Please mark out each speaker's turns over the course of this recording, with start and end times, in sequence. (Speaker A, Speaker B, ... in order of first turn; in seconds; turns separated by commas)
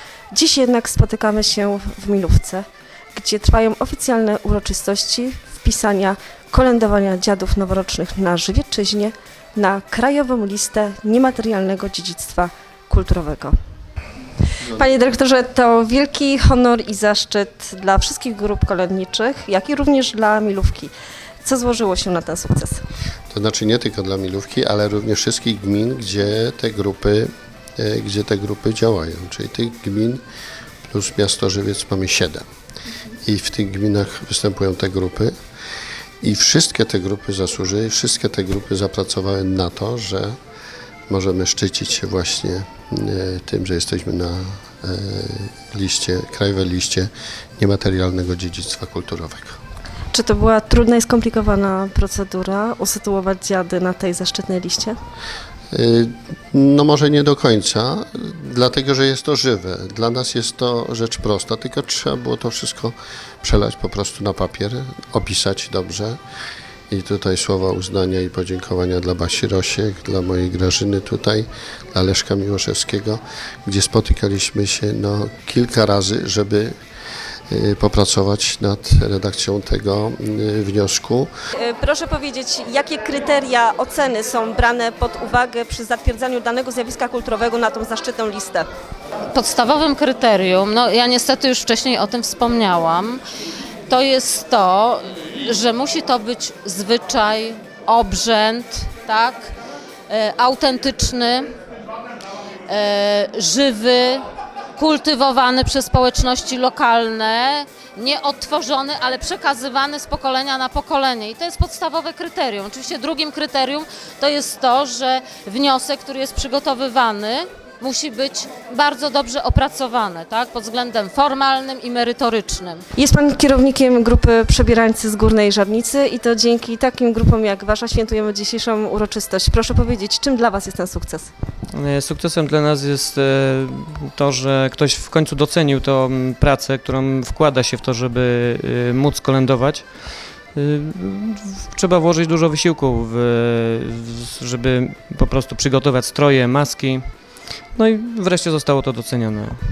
Speaker A: 0.3-13.6, Speaker A: 14.7-22.9, Speaker B: 23.3-30.2, Speaker B: 30.9-32.5, Speaker B: 33.2-35.4, Speaker B: 36.2-40.4, Speaker B: 41.1-49.6, Speaker A: 50.1-55.0, Speaker B: 55.7-66.2, Speaker B: 66.9-76.7, Speaker B: 77.5-81.3, Speaker A: 81.6-88.7, Speaker C: 89.3-93.2, Speaker C: 93.9-99.5, Speaker C: 100.1-101.5, Speaker C: 102.7-104.2, Speaker C: 104.8-122.8, Speaker A: 123.0-131.3, Speaker D: 131.8-139.9, Speaker D: 140.6-146.8, Speaker D: 147.8-149.6